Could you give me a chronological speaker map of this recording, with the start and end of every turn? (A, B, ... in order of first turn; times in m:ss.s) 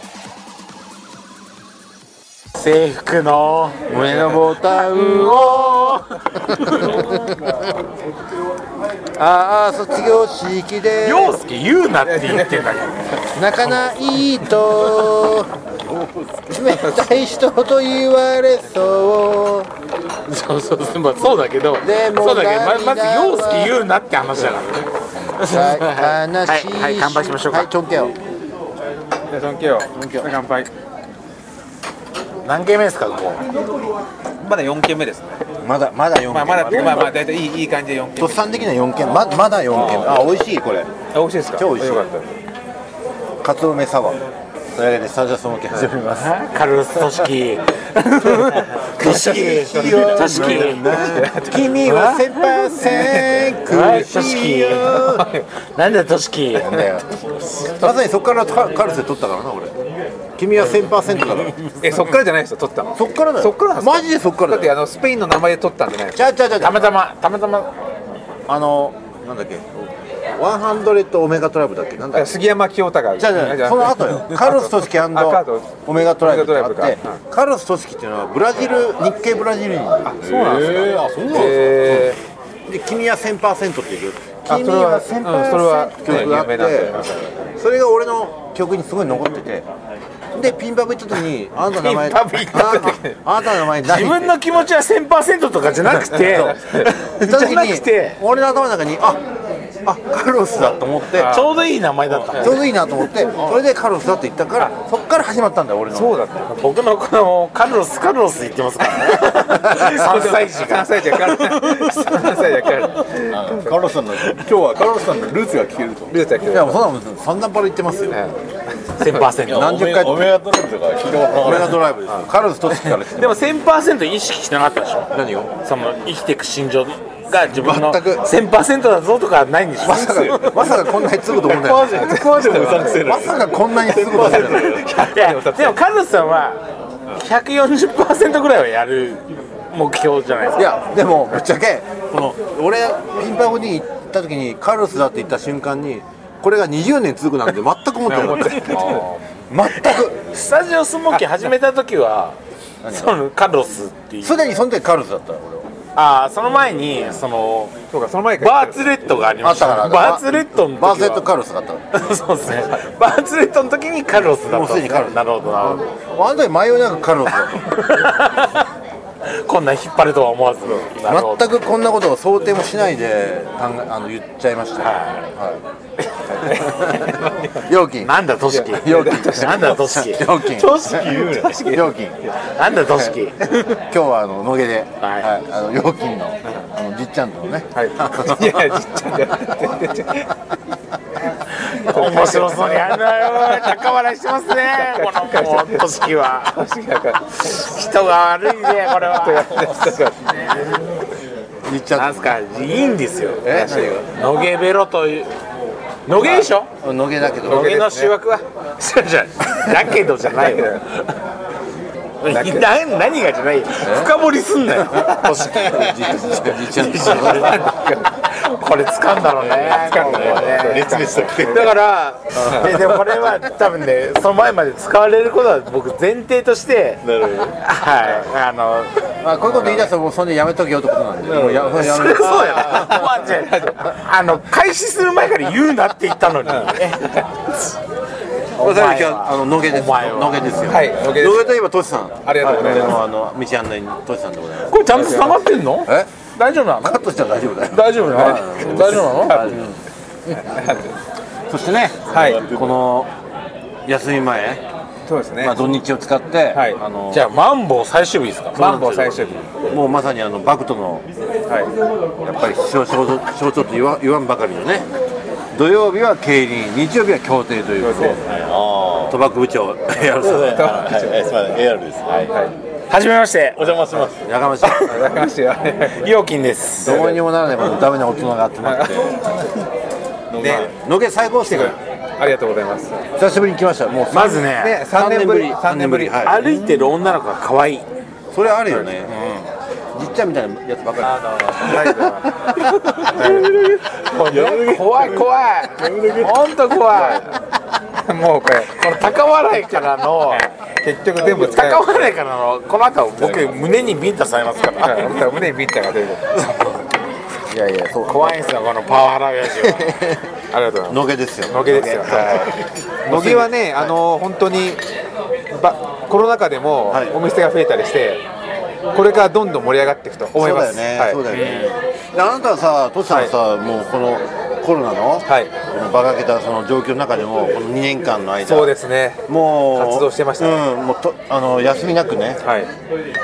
0:02.6-0:07.0 A
0:03.9-0:07.7 B
0:09.2-0:11.4 B
0:11.0-0:13.2 A
0:12.0-0:12.6 C
0:13.3-0:15.5 B
0:16.5-0:19.7 B
0:20.3-0:27.7 A
0:21.8-0:23.7 B
0:25.4-0:28.2 B
0:29.3-0:30.7 C
0:29.9-0:30.3 B
0:32.4-0:33.4 A
0:34.4-0:35.4 C
0:35.6-0:37.2 B
0:36.3-0:38.5 C
0:38.2-0:40.9 B
0:39.9-0:40.1 A
0:41.1-0:42.3 C
0:41.6-0:42.0 B
0:43.4-0:44.2 B
0:44.8-0:46.3 B
0:46.2-0:55.2 A
0:48.2-0:53.6 C
0:49.0-0:55.2 B
0:54.9-0:55.5 C
0:55.8-0:57.8 A
0:56.6-0:57.0 B
0:57.7-0:59.7 B
1:00.4-1:01.6 B
1:01.8-1:06.3 C
1:03.0-1:04.7 B
1:06.2-1:06.9 B
1:06.6-1:07.7 A
1:08.5-1:12.3 B
1:12.1-1:17.2 C
1:13.2-1:20.2 B
1:20.0-1:22.2 C
1:20.2-1:22.1 D
1:22.7-1:29.7 B
1:24.5-1:27.1 C
1:30.4-1:34.4 B
1:31.8-1:33.2 C
1:33.8-1:38.2 A
1:36.1-1:37.0 C
1:37.1-1:39.2 B
1:39.8-1:41.4 B
1:41.2-1:41.5 C
1:41.2-1:42.6 A
1:42.3-1:46.2 B
1:45.9-1:46.5 C
1:46.5-1:52.3 A
1:49.4-1:53.8 C
1:53.3-1:56.2 D
1:56.1-1:56.9 C
1:56.5-1:58.2 B
1:58.1-1:58.4 C
1:59.0-1:59.3 C
1:59.0-1:59.8 A
1:59.5-2:00.4 B
1:59.5-2:01.8 D
2:01.4-2:03.5 B
2:03.1-2:12.8 A
2:05.1-2:05.6 B
2:07.5-2:08.3 B
2:09.8-2:12.1 B
2:11.5-2:14.8 D
2:11.9-2:13.2 C
2:13.0-2:14.8 B
2:14.1-2:15.8 C
2:14.8-2:16.6 A
2:17.1-2:20.7 A
2:20.6-2:30.3 B
2:28.1-2:29.1 C
2:28.2-2:32.4 A
2:32.8-2:33.1 B
2:32.9-2:34.4 A
2:34.2-2:35.7 B
2:36.0-2:37.8 A
2:37.9-2:39.1 C
2:38.4-2:41.3 A
2:39.4-2:42.0 B
2:41.9-2:45.8 A
2:42.5-2:42.9 C
2:44.3-2:47.7 B
2:47.6-2:48.6 A
2:49.3-2:51.5 A
2:51.0-2:55.6 B
2:54.8-2:55.2 A
2:56.3-2:57.6 C
2:56.6-2:58.1 B
2:58.0-3:00.7 A
2:58.5-2:59.7 C
2:58.7-3:02.2 B
3:00.6-3:01.6 D
3:01.2-3:02.3 C
3:02.4-3:03.8 A
3:03.7-3:08.8 B
3:05.0-3:05.3 A
3:07.8-3:10.4 C
3:11.6-3:16.5 A
3:11.8-3:12.8 C
3:13.5-3:13.8 C
3:14.7-3:17.6 C
3:17.4-3:20.1 A
3:19.0-3:20.2 C
3:21.7-3:22.4 B
3:22.0-3:23.6 A
3:23.4-3:24.1 B
3:23.5-3:24.0 C
3:24.1-3:25.3 A
3:26.1-3:26.7 A
3:26.8-3:27.7 B
3:27.4-3:31.1 A
3:27.4-3:28.2 C
3:32.2-3:37.7 A
3:32.3-3:32.7 C
3:33.8-3:34.1 B
3:35.0-3:37.7 B
3:37.1-3:38.1 C
3:38.3-3:47.0 A
3:39.4-3:41.7 D
3:39.8-3:41.7 C
3:47.0-3:47.6 D
3:47.7-3:48.9 A
3:49.2-3:53.0 B
3:51.3-3:53.0 D
3:51.7-3:57.1 A
3:53.2-3:53.9 C
3:56.4-3:57.4 C
3:58.6-4:05.2 B
3:58.6-4:00.7 A
4:00.6-4:01.6 C
4:02.2-4:03.0 C
4:04.7-4:07.0 A
4:04.9-4:05.4 C
4:05.8-4:06.1 B
4:06.8-4:09.8 B
4:07.7-4:09.6 A
4:09.0-4:09.6 C
4:10.3-4:11.0 C
4:11.5-4:13.1 B
4:12.1-4:12.5 C
4:12.1-4:12.8 D
4:13.9-4:14.6 B
4:15.1-4:15.7 C
4:15.4-4:17.3 B
4:16.5-4:16.8 C
4:17.1-4:19.2 A
4:18.6-4:21.1 B
4:18.6-4:19.5 C
4:22.2-4:24.9 B
4:25.5-4:28.3 B
4:27.9-4:29.2 D
4:29.1-4:30.7 B
4:30.1-4:32.3 D
4:30.4-4:31.3 C
4:32.3-4:32.5 C
4:32.9-4:33.8 A
4:33.6-4:34.2 D
4:34.1-4:35.0 B
4:34.6-4:35.0 A
4:34.8-4:36.0 C
4:35.9-4:37.2 A
4:36.8-4:39.4 B
4:38.6-4:38.9 C
4:40.3-4:40.7 D
4:40.4-4:40.7 C
4:40.4-4:41.8 B
4:41.5-4:43.0 C
4:43.2-4:46.4 B
4:44.1-4:44.8 A
4:44.5-4:46.5 C
4:46.2-4:47.8 A
4:48.3-4:49.2 B
4:49.1-4:49.5 A
4:49.9-4:53.0 B
4:51.2-4:51.7 D
4:51.6-4:53.5 C
4:53.0-4:57.3 A
4:54.3-4:56.4 D
4:56.2-4:57.3 C
4:58.0-4:59.0 C
4:58.7-5:00.5 A
4:59.7-5:02.1 C
5:01.2-5:01.6 D
5:01.4-5:05.3 A
5:03.2-5:03.6 D
5:04.8-5:06.3 C
5:06.3-5:06.8 A
5:07.5-5:08.4 B
5:08.0-5:10.0 A
5:09.6-5:10.2 B
5:10.5-5:12.5 C
5:10.9-5:14.0 B
5:12.1-5:12.4 A
5:13.1-5:14.8 C
5:15.5-5:18.2 C
5:16.9-5:17.2 B
5:18.9-5:21.2 C
5:20.3-5:28.7 B
5:21.3-5:21.7 A
5:25.3-5:25.5 C
5:28.4-5:30.6 C
5:29.3-5:32.4 B
5:32.4-5:32.7 C